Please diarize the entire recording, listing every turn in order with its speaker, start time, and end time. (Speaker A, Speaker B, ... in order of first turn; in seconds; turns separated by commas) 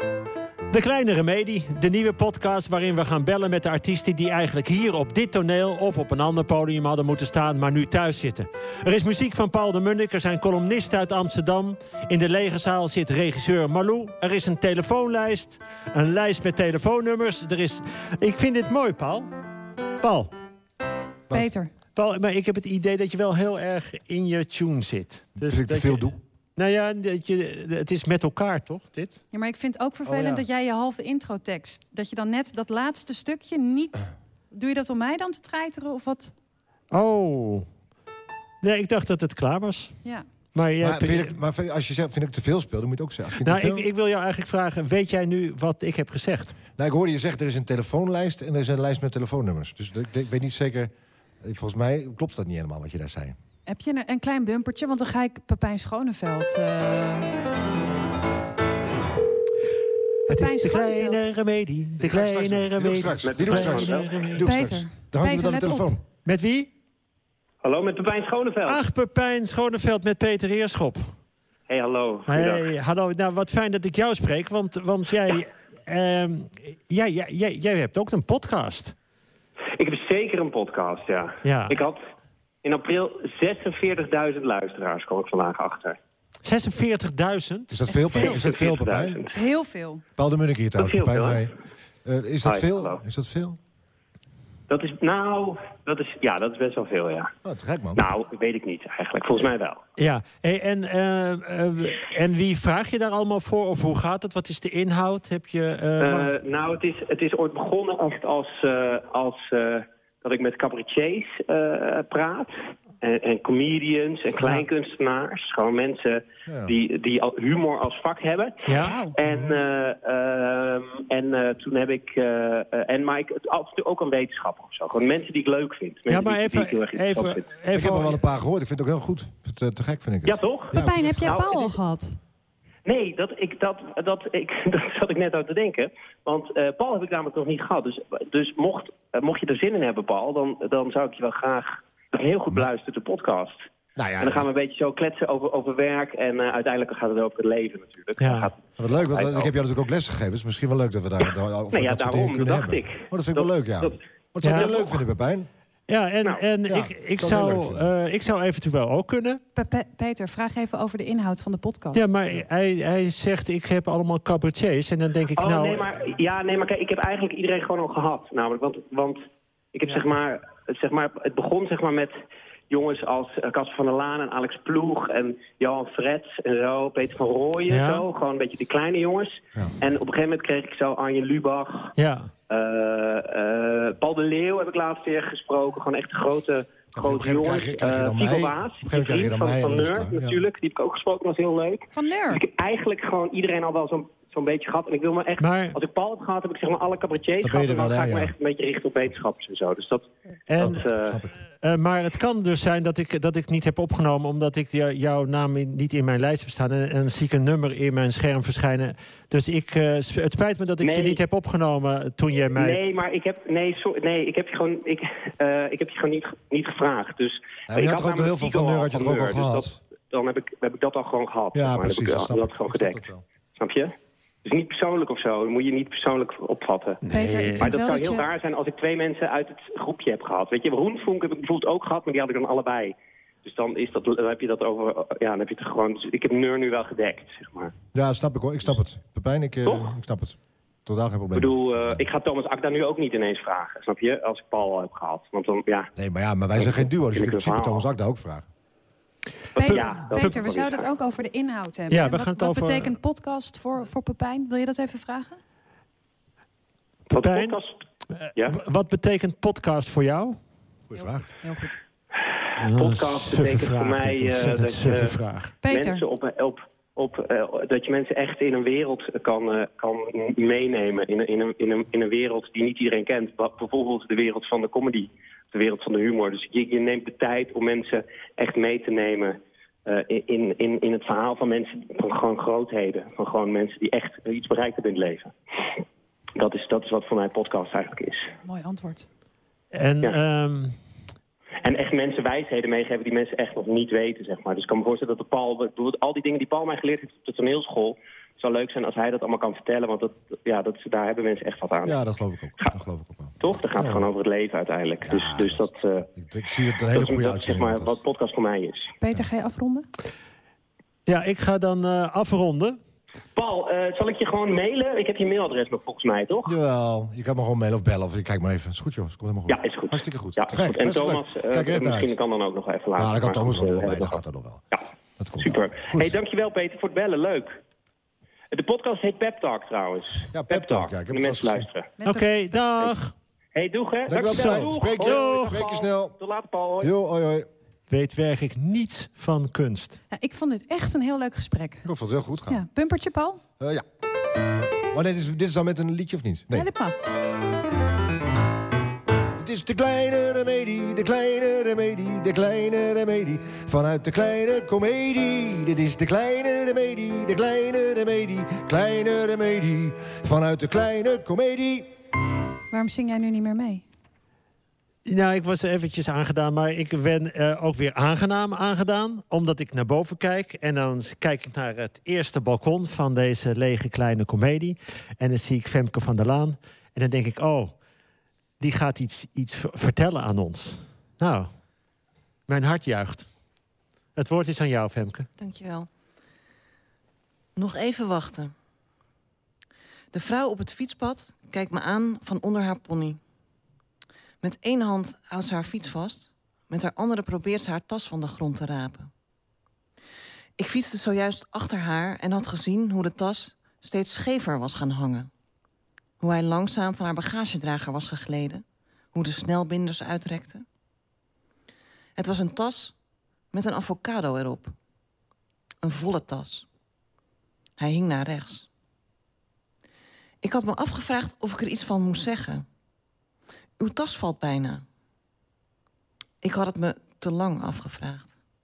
Speaker A: 0.7-19.3, Speaker A: 20.0-20.3, Speaker B: 21.3-21.7, Speaker A: 21.9-29.2, Speaker C: 25.4-26.2, Speaker B: 29.3-36.3, Speaker C: 30.1-30.4, Speaker A: 36.9-37.7, Speaker A: 38.6-41.4, Speaker C: 40.8-43.9, Speaker A: 43.4-46.6, Speaker C: 46.8-53.4, Speaker B: 53.7-57.3, Speaker B: 60.3-61.2, Speaker A: 60.3-64.5, Speaker C: 62.0-66.0, Speaker D: 63.2-64.1, Speaker B: 64.4-65.9, Speaker A: 66.2-66.7, Speaker D: 67.6-68.8, Speaker A: 68.6-71.2, Speaker D: 71.7-72.7, Speaker A: 72.3-79.0, Speaker D: 79.8-82.0, Speaker A: 81.4-81.8, Speaker D: 82.6-86.0, Speaker A: 86.4-88.2, Speaker C: 87.7-89.2, Speaker D: 88.1-89.4, Speaker B: 89.3-90.0, Speaker C: 90.2-91.5, Speaker D: 90.8-91.5, Speaker C: 92.0-93.6, Speaker D: 92.5-93.0, Speaker D: 94.7-97.3, Speaker C: 97.5-98.0, Speaker D: 98.0-99.8, Speaker A: 100.0-106.3, Speaker D: 106.0-127.4, Speaker A: 114.4-114.7, Speaker C: 116.5-116.7, Speaker A: 118.7-119.0, Speaker B: 118.8-119.1, Speaker C: 119.2-119.6, Speaker A: 126.1-128.2, Speaker C: 127.7-131.4, Speaker D: 130.2-131.7, Speaker B: 130.7-132.2, Speaker D: 132.8-143.6, Speaker C: 144.0-144.5, Speaker D: 144.2-149.5, Speaker A: 148.2-148.5, Speaker C: 148.8-155.5, Speaker D: 151.7-154.9, Speaker A: 154.4-154.8, Speaker A: 155.9-159.4, Speaker C: 156.7-157.9, Speaker B: 159.6-162.0, Speaker A: 161.9-166.0, Speaker D: 165.4-169.2, Speaker D: 169.7-172.1, Speaker D: 172.7-181.9, Speaker A: 177.7-178.1, Speaker A: 182.0-182.3, Speaker D: 182.5-201.2, Speaker C: 186.9-190.4, Speaker B: 191.9-192.4, Speaker A: 195.4-195.8, Speaker C: 197.4-198.3, Speaker A: 200.5-200.9, Speaker C: 200.6-201.3, Speaker A: 201.6-212.8, Speaker D: 210.8-211.2, Speaker D: 212.6-223.0, Speaker C: 217.7-219.8, Speaker C: 221.5-223.2, Speaker D: 223.6-223.9, Speaker D: 224.4-237.7, Speaker A: 227.0-227.7, Speaker B: 227.1-228.3, Speaker C: 237.9-242.0, Speaker D: 241.3-245.9, Speaker C: 246.0-248.5, Speaker D: 246.6-247.9, Speaker D: 249.6-250.9, Speaker B: 249.6-255.4, Speaker A: 249.7-250.2, Speaker A: 251.9-253.0, Speaker A: 257.1-257.6, Speaker D: 257.1-257.8, Speaker A: 258.1-260.4, Speaker C: 260.9-261.3, Speaker B: 260.9-261.8, Speaker A: 262.6-265.6, Speaker D: 262.7-285.3, Speaker B: 265.6-266.0, Speaker D: 286.4-288.3, Speaker B: 288.4-289.1, Speaker A: 289.7-290.8, Speaker D: 291.6-302.0, Speaker C: 301.9-304.1, Speaker D: 303.4-306.1, Speaker C: 305.1-308.0, Speaker D: 306.9-308.9, Speaker B: 309.0-309.9, Speaker A: 311.1-312.8, Speaker D: 313.4-316.5, Speaker C: 316.5-322.2, Speaker D: 319.5-324.2, Speaker C: 323.0-324.6, Speaker C: 325.2-326.2, Speaker D: 325.4-327.6, Speaker D: 328.5-331.9, Speaker C: 330.3-331.7, Speaker B: 332.0-332.6, Speaker A: 332.0-333.1, Speaker D: 333.5-336.9, Speaker C: 334.1-336.2, Speaker A: 334.2-335.6, Speaker C: 336.8-337.5, Speaker A: 337.9-340.0, Speaker B: 340.1-341.9, Speaker C: 341.8-342.6, Speaker B: 342.5-343.4, Speaker C: 343.6-343.9, Speaker C: 344.9-346.7, Speaker B: 346.5-347.0, Speaker C: 349.4-361.9, Speaker B: 362.7-363.8, Speaker A: 365.1-377.8, Speaker A: 378.6-381.5, Speaker A: 382.5-383.3, Speaker A: 384.1-385.3, Speaker E: 385.4-385.9, Speaker E: 387.6-388.5, Speaker E: 390.1-393.2, Speaker E: 394.4-399.1, Speaker E: 400.6-405.3, Speaker E: 406.2-410.6, Speaker E: 412.2-413.0, Speaker E: 413.5-414.8, Speaker E: 415.8-416.7, Speaker E: 417.8-418.7, Speaker E: 420.4-422.6, Speaker E: 423.8-424.8, Speaker E: 426.4-428.4